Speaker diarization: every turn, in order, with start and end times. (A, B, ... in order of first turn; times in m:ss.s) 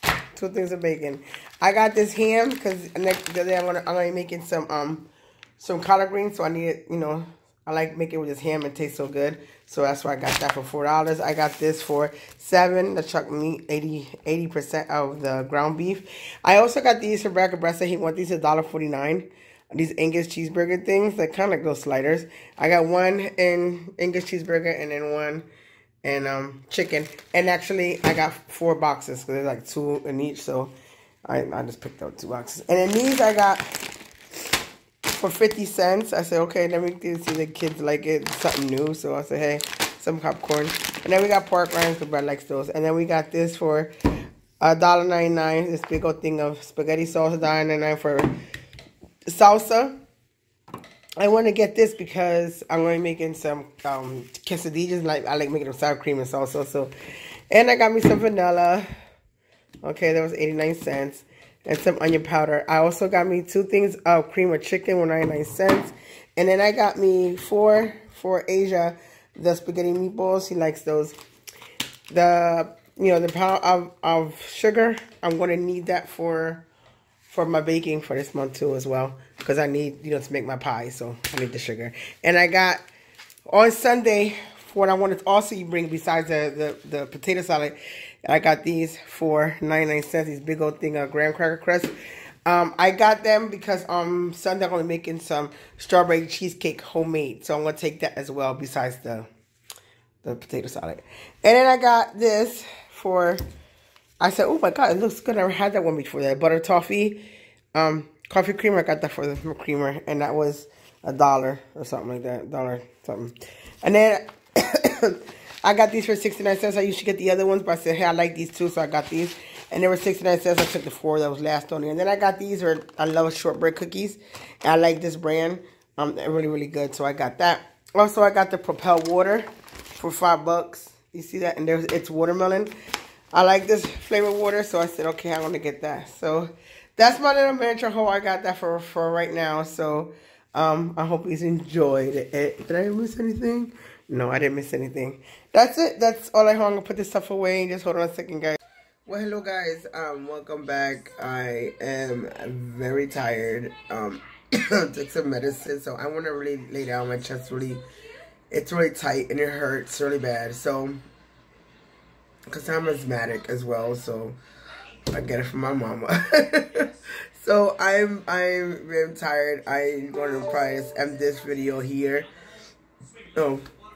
0:00.3-0:25.5 A
0:26.0-0:30.7 A
0:31.2-0:33.8 A
0:35.1-0:43.9 A
0:44.6-0:48.3 A
0:49.3-0:50.0 A
0:51.2-0:56.9 A
0:57.5-0:58.9 A
0:59.8-1:11.2 A
1:12.1-1:16.7 A
1:17.3-1:22.8 A
1:23.5-1:31.9 A
1:32.5-1:39.3 A
1:40.2-1:43.4 A
1:44.2-2:12.7 A
2:13.3-2:37.8 A
2:38.5-2:41.0 A
2:42.5-2:44.4 A
2:45.1-2:52.3 A
2:53.3-2:53.7 A